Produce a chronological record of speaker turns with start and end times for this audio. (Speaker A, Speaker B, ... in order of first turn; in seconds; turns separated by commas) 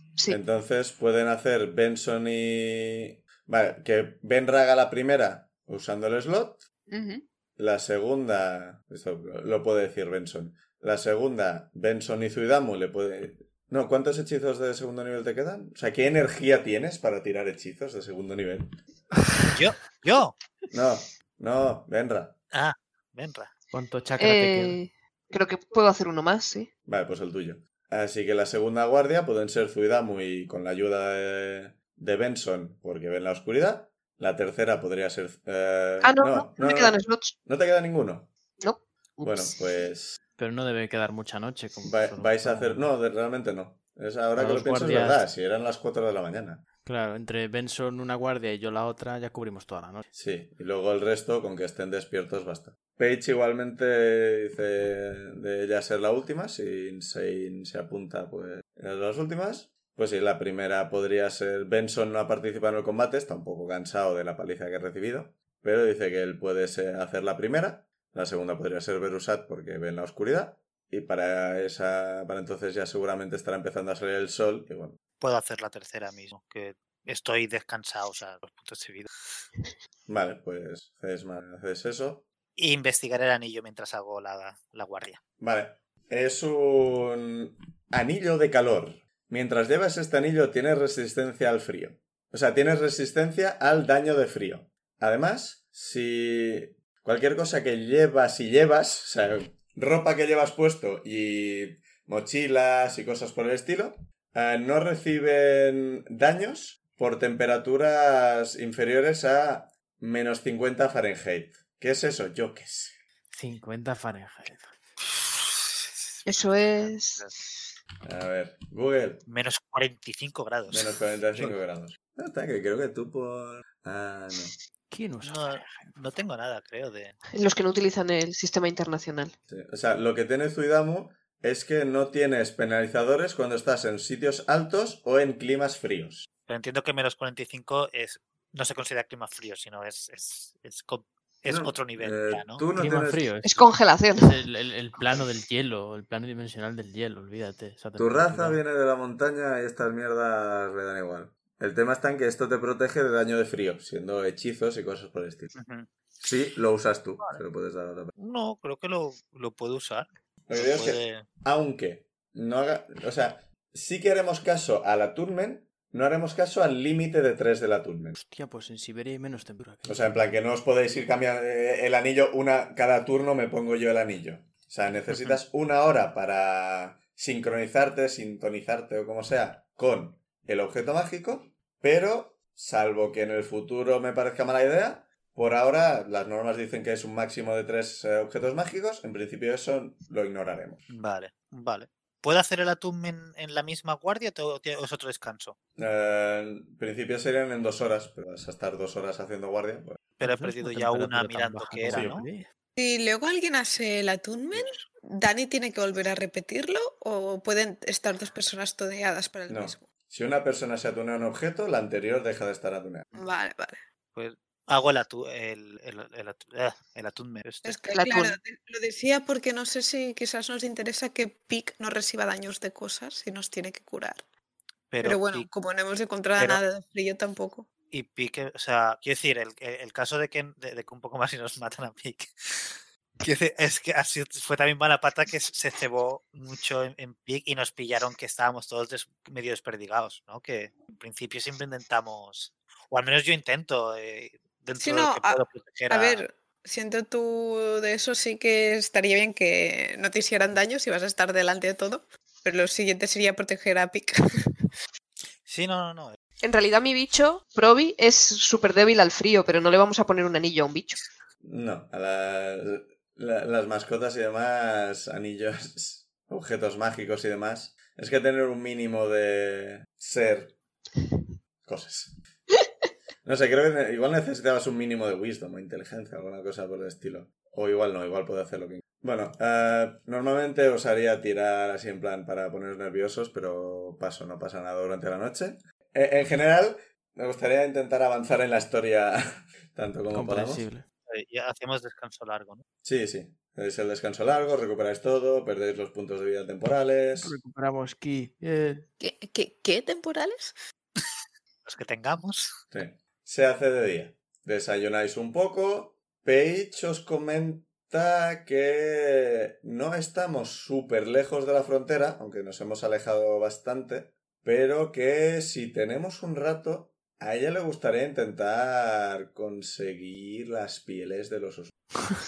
Speaker A: 0.3-6.7, Speaker B: 6.9-7.2, Speaker A: 7.6-18.8, Speaker C: 19.5-20.4, Speaker A: 20.7-22.4, Speaker C: 22.5-23.5, Speaker D: 23.7-24.8, Speaker B: 24.2-26.7, Speaker A: 26.9-38.3, Speaker B: 36.0-37.4, Speaker B: 38.6-39.6, Speaker A: 39.2-40.2, Speaker D: 40.4-42.9, Speaker A: 41.8-46.6, Speaker D: 44.4-45.2, Speaker D: 46.9-50.1, Speaker A: 50.1-75.0, Speaker C: 75.2-79.1, Speaker A: 80.1-82.3, Speaker C: 82.6-85.2, Speaker A: 85.4-113.0, Speaker D: 113.3-114.7, Speaker C: 115.0-117.3, Speaker B: 116.3-117.2, Speaker A: 118.0-119.2, Speaker C: 119.3-121.5, Speaker A: 120.7-124.6, Speaker D: 124.9-126.1, Speaker C: 125.2-127.2, Speaker B: 127.3-129.3, Speaker A: 129.5-136.3, Speaker C: 136.5-142.7, Speaker A: 141.5-143.2, Speaker D: 142.8-148.6, Speaker B: 143.4-144.4, Speaker A: 148.0-155.5, Speaker C: 155.6-155.9, Speaker A: 156.2-158.1, Speaker C: 158.2-161.3, Speaker A: 160.5-168.2, Speaker D: 168.2-170.0, Speaker A: 169.9-190.8, Speaker C: 190.9-195.6, Speaker A: 195.8-200.0, Speaker C: 200.2-202.3, Speaker D: 200.2-202.5, Speaker A: 201.9-202.2, Speaker E: 202.8-209.8, Speaker C: 204.5-204.8, Speaker A: 209.5-213.1, Speaker E: 213.1-213.8, Speaker C: 214.2-217.9, Speaker E: 217.7-224.2, Speaker B: 217.9-218.4, Speaker C: 224.9-225.5, Speaker E: 225.0-227.7, Speaker C: 227.9-246.3, Speaker E: 244.8-254.5, Speaker C: 255.4-256.2, Speaker B: 256.4-261.1, Speaker A: 261.4-270.6, Speaker A: 271.6-272.1, Speaker A: 273.2-290.7, Speaker D: 290.1-290.9, Speaker C: 291.1-292.6, Speaker A: 292.8-297.4, Speaker D: 297.2-298.9, Speaker E: 299.0-300.6, Speaker C: 301.7-302.5, Speaker A: 302.7-321.8